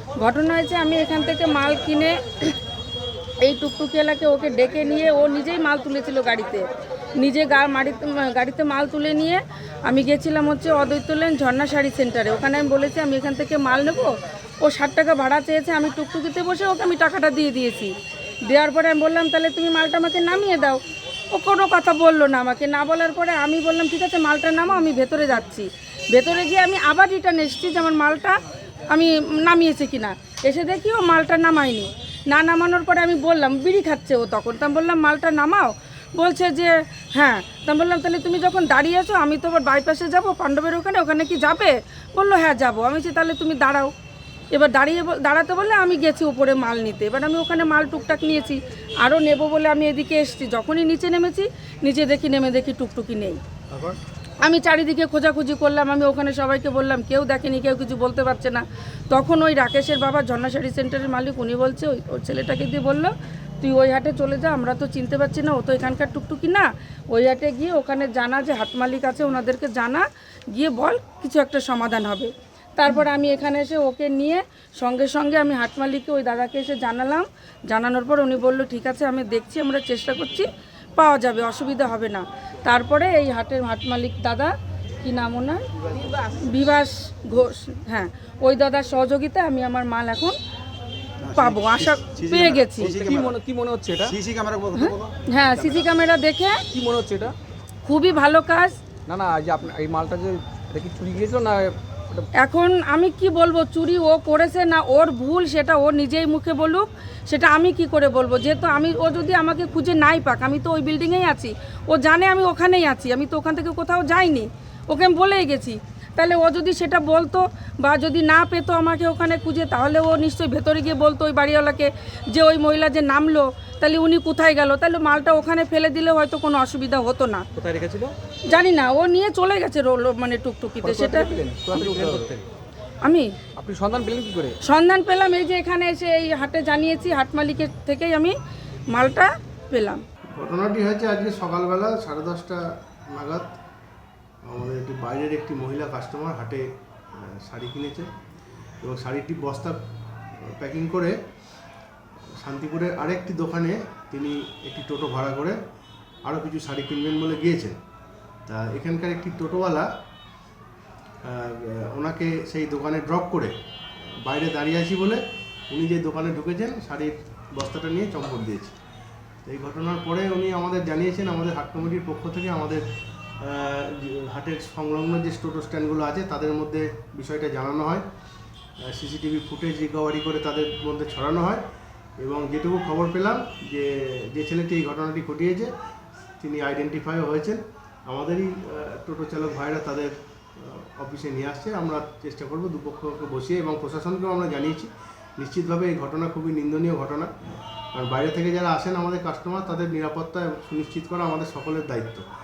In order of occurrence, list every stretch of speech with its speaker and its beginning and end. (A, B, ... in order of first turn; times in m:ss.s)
0:00.2-0:02.5 A
0:03.4-0:06.6 A
0:07.2-0:17.9 A
0:18.5-0:20.8 A
0:21.3-0:43.9 A
0:44.5-0:53.4 A
0:54.4-1:30.4 A
1:31.3-1:31.5 B
1:31.3-1:33.2 A
1:32.2-1:33.3 B
1:32.9-1:34.2 C
1:34.1-1:35.1 B
1:34.7-1:36.6 A
1:36.7-1:37.3 C
1:37.8-1:38.8 A
1:39.1-1:42.3 C
1:42.4-2:07.4 A
2:07.6-2:08.1 B
2:07.6-2:08.0 C
2:08.5-2:11.3 A
2:10.8-2:12.4 C
2:11.9-2:12.2 B
2:13.0-2:13.3 A
2:13.6-2:14.6 C
2:14.6-2:18.4 A
2:18.9-2:20.0 A
2:20.3-2:23.5 D
2:24.4-2:28.1 D
2:28.8-2:29.8 D
2:30.4-2:31.2 D
2:32.4-2:35.6 D
2:36.2-2:37.8 D
2:38.5-2:39.9 D
2:41.2-2:43.5 D
2:44.2-2:48.7 D
2:49.4-2:52.8 D
2:53.4-2:58.0 D
2:58.8-3:01.6 D
3:02.2-3:05.7 D
3:06.4-3:17.3 D
3:17.9-3:22.2 D